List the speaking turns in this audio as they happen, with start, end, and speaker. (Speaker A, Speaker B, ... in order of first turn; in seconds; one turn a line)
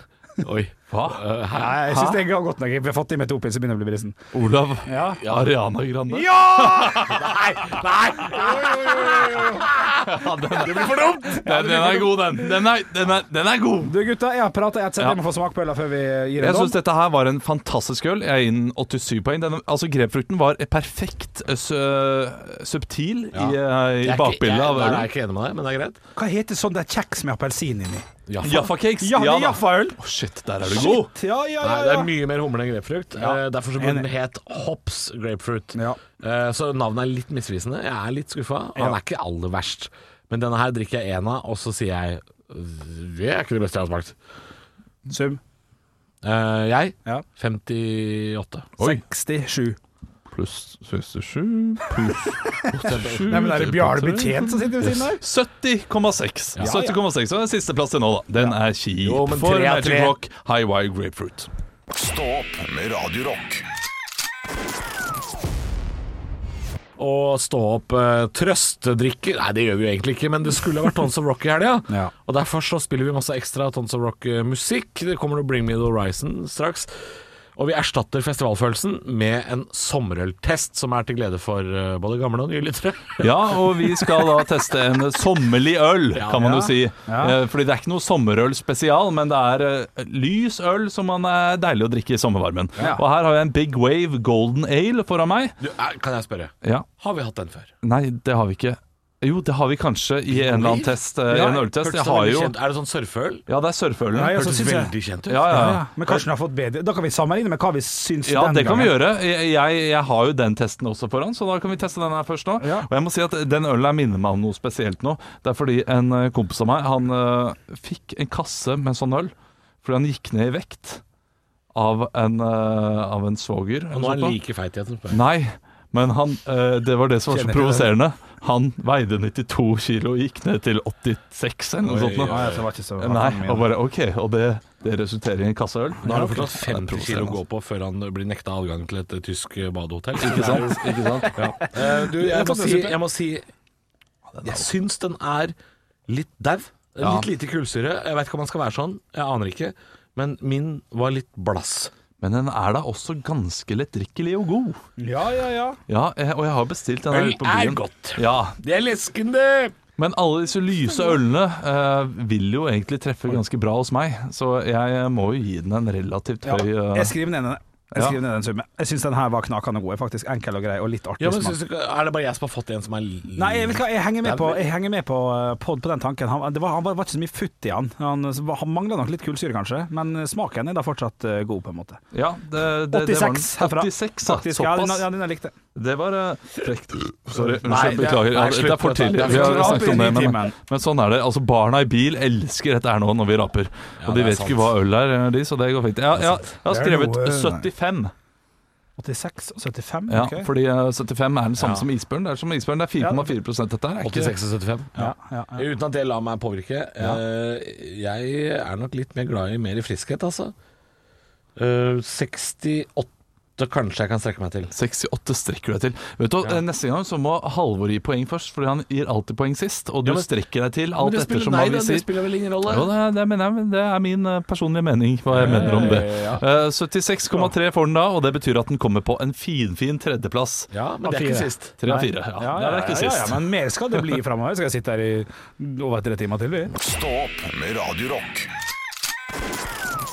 Speaker A: 0.4-2.0
Speaker B: 0.9-1.2
Speaker C: 1.5-4.2
Speaker B: 4.3-7.4
Speaker C: 4.8-5.2
Speaker A: 5.2-5.5
Speaker C: 6.1-7.2
Speaker A: 7.1-11.9
Speaker B: 10.0-13.9
Speaker C: 11.4-12.3
Speaker C: 13.8-16.8
Speaker B: 16.4-25.1
Speaker A: 23.3-26.0
Speaker C: 26.1-28.1
Speaker A: 28.3-28.7
Speaker B: 28.4-31.1
Speaker C: 29.0-30.0
Speaker C: 30.6-32.1
Speaker A: 31.6-44.1
Speaker C: 33.2-34.1
Speaker C: 45.1-45.4
Speaker A: 46.2-48.7
Speaker C: 48.8-49.8
Speaker B: 50.3-61.5
Speaker C: 52.6-55.2
Speaker A: 52.8-53.5
Speaker C: 56.6-57.0
Speaker A: 59.0-60.1
Speaker D: 61.9-63.7
Speaker A: 67.0-76.9
Speaker A: 77.5-83.8
Speaker B: 83.2-95.6
Speaker A: 86.1-86.7
Speaker C: 87.0-87.4
Speaker A: 95.6-97.7
Speaker B: 97.8-102.5
Speaker A: 100.3-101.0
Speaker C: 101.3-101.6
Speaker A: 101.6-103.4
Speaker B: 103.5-104.4
Speaker C: 104.1-104.9
Speaker A: 104.2-105.6
Speaker B: 105.3-106.2
Speaker C: 105.5-109.0
Speaker B: 108.2-119.3
Speaker C: 112.6-112.9
Speaker B: 119.8-121.0
Speaker B: 121.7-124.4
Speaker A: 123.9-125.2
Speaker B: 125.1-132.4
Speaker C: 127.3-127.9
Speaker A: 131.8-132.6
Speaker C: 132.3-133.7
Speaker B: 133.0-137.4
Speaker C: 136.0-136.5
Speaker A: 136.0-143.4
Speaker B: 140.2-141.4
Speaker C: 141.2-143.0
Speaker B: 144.3-144.7
Speaker A: 144.4-145.5
Speaker A: 146.1-151.9
Speaker B: 147.0-147.3
Speaker B: 152.2-154.8
Speaker C: 155.0-155.8
Speaker B: 155.9-158.6
Speaker A: 157.1-159.7
Speaker B: 160.0-167.1
Speaker C: 166.4-171.6
Speaker A: 171.2-174.6
Speaker C: 173.3-182.0
Speaker B: 182.1-185.0
Speaker C: 182.9-185.5
Speaker B: 185.7-198.1
Speaker C: 187.3-187.9
Speaker A: 187.6-190.2
Speaker C: 189.2-190.6
Speaker A: 194.0-194.7
Speaker C: 196.7-197.7
Speaker C: 199.0-200.5
Speaker B: 200.1-204.3
Speaker A: 201.6-201.8
Speaker C: 203.0-203.3
Speaker A: 204.0-210.5
Speaker C: 205.0-205.6
Speaker A: 211.6-214.7
Speaker B: 214.7-222.1
Speaker A: 220.9-222.9
Speaker B: 222.7-230.7
Speaker A: 225.3-226.4
Speaker C: 225.4-226.0
Speaker A: 230.7-231.7
Speaker C: 231.0-236.7
Speaker B: 231.8-233.4
Speaker D: 236.7-238.5